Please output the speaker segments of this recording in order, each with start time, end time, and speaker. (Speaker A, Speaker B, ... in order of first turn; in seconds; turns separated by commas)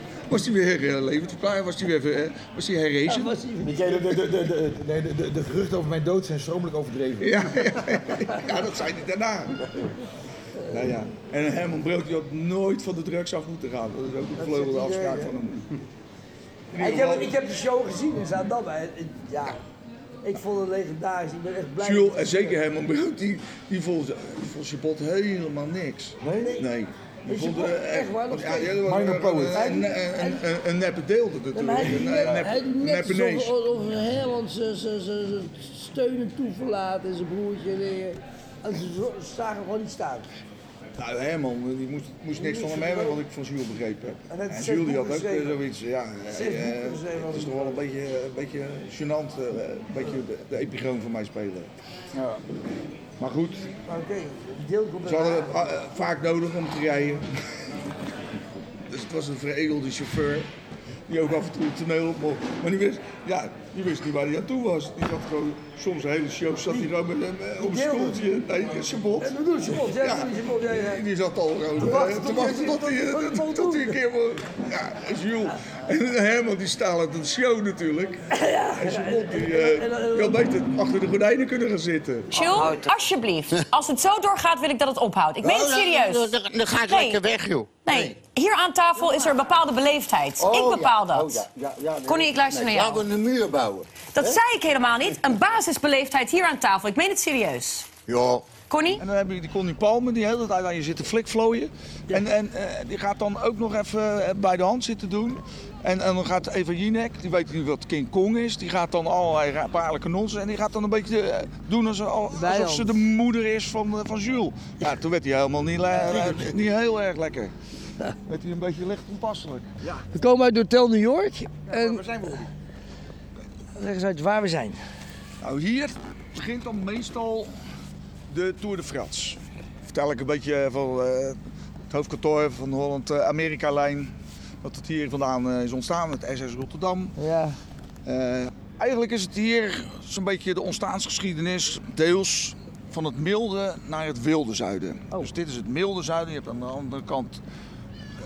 Speaker A: 0.3-3.3, Speaker B: 3.1-4.1, Speaker C: 3.6-7.5, Speaker A: 7.2-9.7, Speaker A: 10.6-15.7, Speaker B: 14.4-15.3, Speaker A: 16.7-17.3, Speaker B: 16.8-19.6, Speaker B: 20.2-22.6, Speaker A: 21.8-33.5, Speaker C: 26.2-26.6, Speaker B: 27.2-28.8, Speaker C: 28.8-29.7, Speaker B: 29.5-30.4, Speaker B: 31.5-40.3, Speaker A: 41.0-51.7, Speaker B: 42.3-43.2, Speaker B: 44.3-45.6, Speaker B: 46.3-47.8, Speaker C: 52.1-52.4, Speaker A: 53.2-53.7, Speaker B: 53.9-55.6, Speaker A: 55.0-57.8, Speaker A: 58.7-60.5, Speaker A: 61.1-78.2, Speaker B: 67.6-68.3, Speaker B: 69.2-71.0, Speaker B: 71.8-74.0, Speaker B: 78.3-80.4, Speaker A: 78.8-82.5, Speaker D: 82.3-91.5, Speaker E: 85.4-88.1, Speaker E: 90.4-93.8, Speaker C: 90.4-93.0, Speaker D: 92.0-93.1, Speaker D: 94.1-98.0, Speaker E: 98.1-98.4, Speaker D: 98.7-99.0, Speaker A: 98.9-117.5, Speaker B: 112.3-113.0, Speaker A: 118.2-119.7, Speaker B: 120.1-122.1, Speaker C: 121.7-122.5, Speaker B: 123.7-124.8, Speaker A: 125.4-127.5, Speaker A: 128.3-131.4, Speaker A: 131.9-134.1, Speaker A: 134.6-137.2, Speaker B: 137.2-137.6, Speaker A: 138.1-147.4